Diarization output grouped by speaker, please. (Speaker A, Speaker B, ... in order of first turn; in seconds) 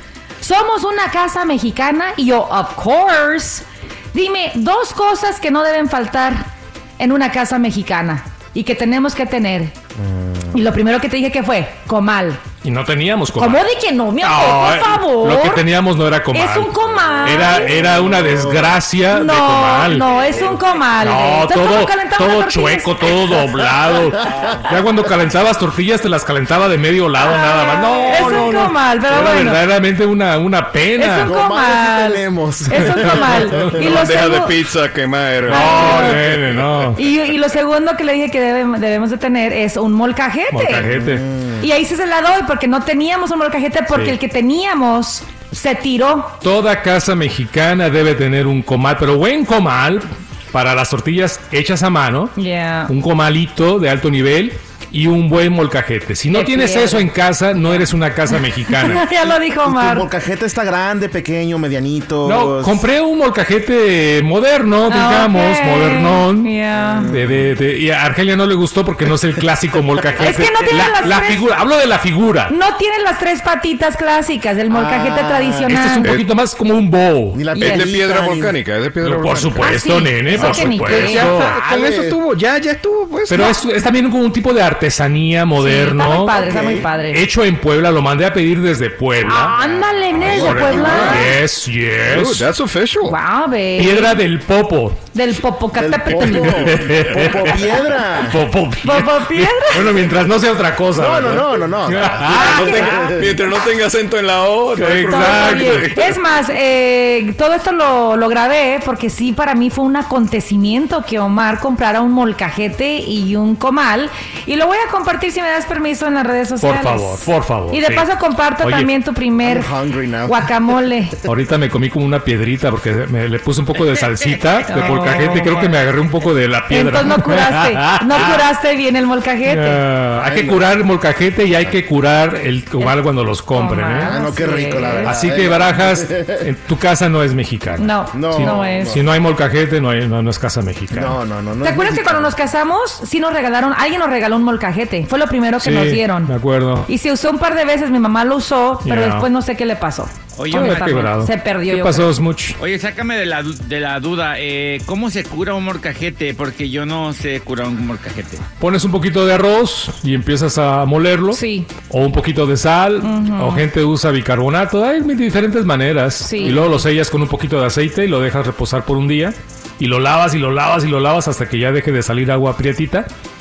Speaker A: 0.4-9.7, 10.5-12.4, 13.3-15.6, 16.3-17.8, 19.1-23.4, 27.2-29.6, 30.9-34.5, 35.5-36.2, 37.0-40.9, 41.6-46.4, 52.4-52.9, 56.3-60.1, 64.9-67.1, 70.2-71.5, 72.5-76.1, 77.5-77.9, 79.6-81.5, 85.6-87.2, 89.2-91.3, 93.0-94.2, 95.1-96.8, 98.8-100.0, 102.2-103.0, 105.0-119.7, 120.2-121.2, 124.7-125.6, 126.7-129.8, 133.5-135.1, 137.8-139.0, 141.6-146.3, 146.9-152.1, 161.3-161.7, 163.0-163.6, 166.2-166.8
Speaker B: 10.0-10.5, 17.8-18.7, 31.2-34.0, 40.8-41.7, 59.1-62.8, 66.7-67.5, 74.7-75.8, 77.3-78.6, 81.3-82.2, 86.4-86.9, 89.5-91.3, 95.8-98.4, 101.0-103.4, 119.4-120.5, 130.2-130.7, 134.0-136.5, 138.1-139.0, 140.9-142.3
Speaker C: 12.6-13.6, 14.2-16.7, 17.2-20.4, 21.0-31.3, 32.7-34.1, 35.5-37.0, 40.5-41.2, 43.9-44.1, 46.4-59.0, 62.2-66.5, 67.0-72.5, 75.7-77.4, 79.0-81.5, 83.3-89.6, 90.1-92.5, 93.8-95.0, 96.2-102.8, 104.7-105.9, 116.6-118.1, 118.6-118.9, 121.2-128.4, 129.4-134.1, 135.0-141.2, 145.6-146.9, 148.8-149.3, 150.5-152.6, 158.6-173.1
Speaker D: 33.7-36.9, 76.0-76.3, 77.5-83.5, 90.8-91.2, 92.0-93.2, 102.1-106.2
Speaker E: 150.3-151.1, 152.6-158.4